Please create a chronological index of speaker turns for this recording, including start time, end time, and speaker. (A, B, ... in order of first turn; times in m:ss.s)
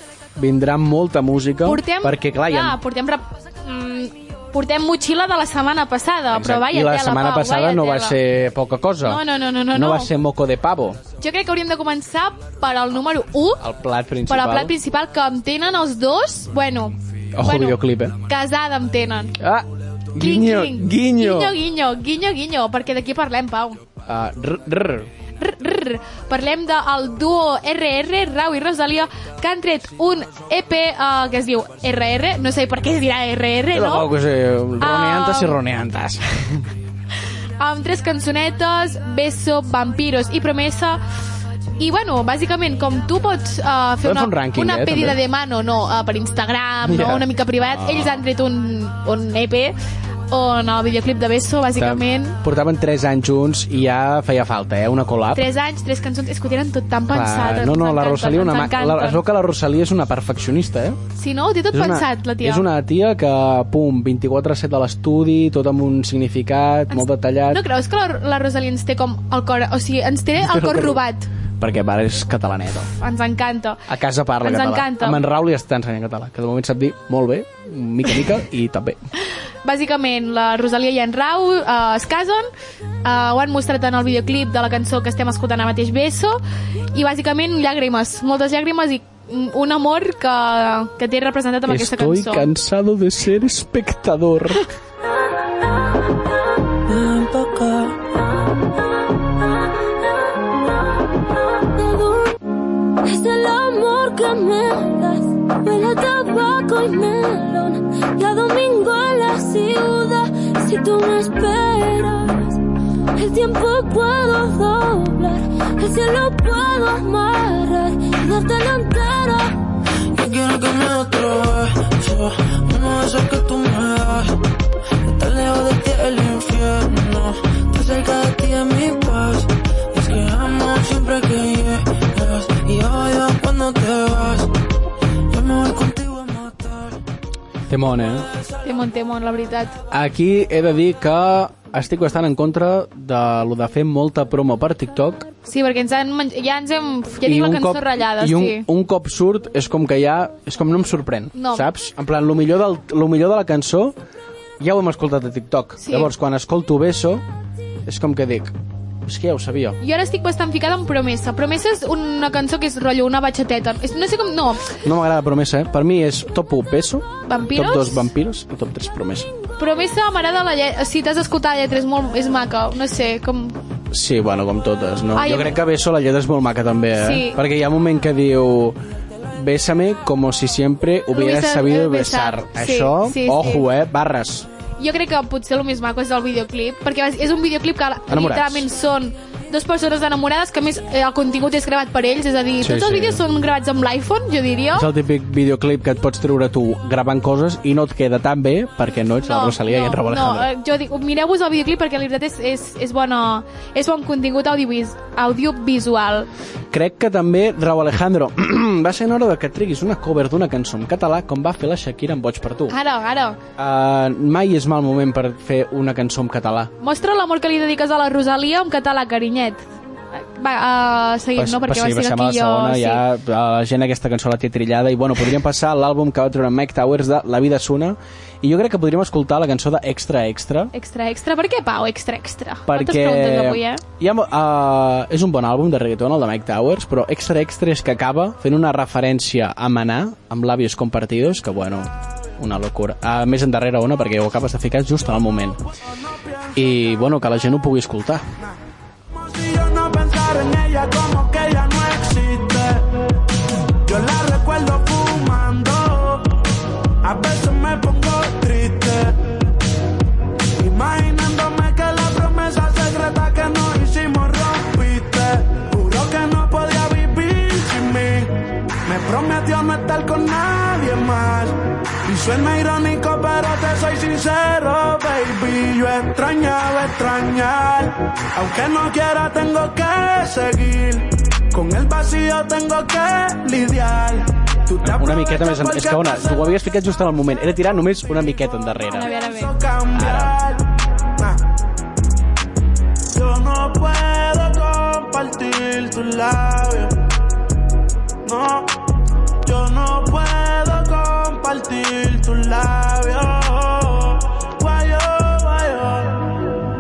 0:00.4-0:02.8 A
0:01.6-0:08.2 B
0:06.3-0:11.0 A
0:09.0-0:10.1 B
0:11.2-0:13.6 B
0:13.6-0:14.8 A
0:14.3-0:19.4 B
0:17.4-0:18.2 A
0:19.4-0:21.6 A
0:20.2-0:23.8 B
0:24.1-0:25.1 A
0:25.4-0:34.1 B
0:33.7-0:36.6 A
0:34.8-0:35.6 B
0:37.6-0:41.0 B
0:41.8-0:49.8 B
0:44.0-0:45.2 A
0:46.8-0:48.1 A
0:50.3-0:52.4 B
0:51.8-0:55.4 A
0:55.3-0:59.2 B
0:57.1-1:01.0 A
1:01.2-1:02.6 B
1:01.7-1:07.6 A
1:06.9-1:11.3 B
1:10.4-1:11.0 A
1:11.6-1:12.9 A
1:13.0-1:13.8 B
1:13.9-1:19.0 A
1:14.4-1:15.2 B
1:19.6-1:22.5 B
1:23.0-1:26.4 B
1:26.9-1:32.5 B
1:31.7-1:34.6 A
1:36.9-1:38.0 C
1:41.6-1:42.4 D
1:43.0-1:52.6 D
1:53.2-1:59.6 D
2:00.1-2:04.4 C
2:05.0-2:14.5 C
2:15.3-2:17.0 C
2:17.7-2:18.3 A
2:18.6-2:19.8 B
2:19.9-2:25.3 A
2:25.4-2:28.7 B
2:27.2-2:34.0 A
2:31.4-2:31.7 B
2:34.6-2:37.2 A
2:35.8-2:36.1 B
2:37.8-2:39.8 A
2:39.8-2:44.7 B
2:44.8-2:49.3 A
2:47.2-2:48.1 B
2:49.6-2:53.6 B
2:53.9-2:58.8 A
2:55.2-2:55.6 B
2:57.0-2:57.4 B
2:59.3-3:04.5 A
3:01.1-3:03.7 B
3:04.8-3:14.9 B
3:08.1-3:08.7 A
3:12.6-3:13.2 A
3:14.7-3:20.5 A
3:19.3-3:26.3 B
3:26.7-3:32.8 A
3:32.7-3:33.4 B
3:33.6-3:36.7 A
3:36.8-3:43.0 B
3:41.4-3:50.7 A
3:50.7-3:53.8 B
3:52.7-4:05.6 A
4:06.6-4:08.2 A
4:09.2-4:12.9 E
4:13.8-4:16.4 E
4:17.0-4:19.3 E
4:20.6-4:46.5 E
4:44.8-4:49.1 A
4:48.9-4:49.5 B
4:49.1-4:51.4 E
4:49.9-4:50.4 A
4:53.1-4:57.0 E
4:58.2-4:58.8 E
4:59.4-5:06.4 E